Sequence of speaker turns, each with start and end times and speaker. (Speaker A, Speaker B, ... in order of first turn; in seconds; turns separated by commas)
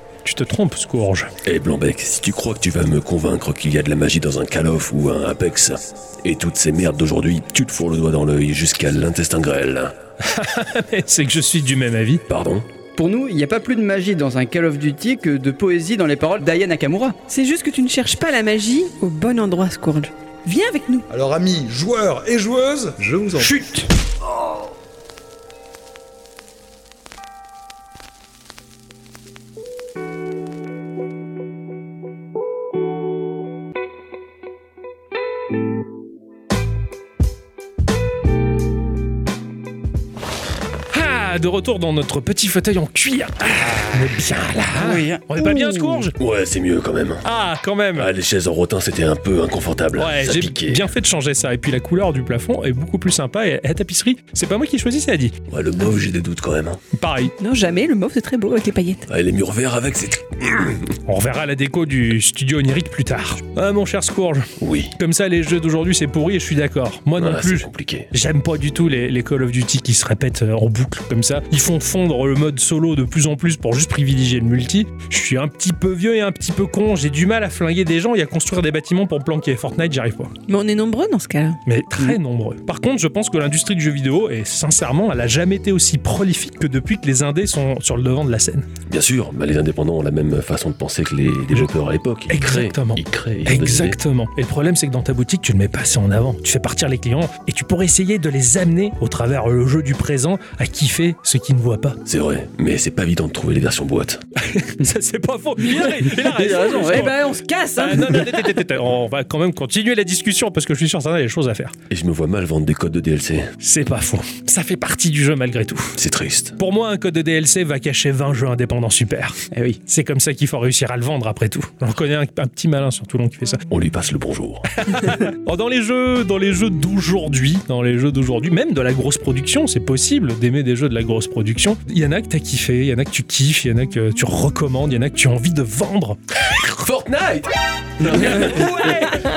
Speaker A: 0.2-1.3, Speaker B: 1.4-9.9, Speaker A: 10.2-12.2, Speaker B: 12.3-12.7, Speaker C: 12.9-17.2, Speaker D: 17.3-21.1, Speaker E: 21.1-23.5, Speaker C: 23.4-23.9, Speaker A: 40.9-46.1, Speaker C: 44.8-46.1, Speaker B: 46.2-47.2, Speaker A: 47.2-48.1, Speaker B: 48.0-50.9, Speaker A: 50.0-55.4, Speaker B: 55.5-56.8, Speaker A: 56.9-57.3, Speaker D: 57.4-59.1, Speaker B: 59.1-60.9, Speaker A: 61.1-80.3, Speaker B: 64.6-64.9, Speaker B: 67.2-68.1, Speaker D: 80.5-81.6, Speaker A: 81.7-88.7, Speaker B: 88.9-94.0, Speaker A: 92.3-102.0, Speaker B: 102.1-104.2, Speaker A: 104.4-107.2, Speaker C: 105.8-107.3, Speaker D: 106.8-108.3, Speaker A: 107.8-111.8, Speaker B: 111.9-113.5, Speaker A: 113.6-116.0, Speaker B: 116.0-116.6, Speaker A: 116.6-123.6, Speaker C: 119.5-119.8, Speaker B: 123.7-125.0, Speaker A: 124.8-136.2, Speaker B: 136.7-139.0, Speaker A: 138.0-139.3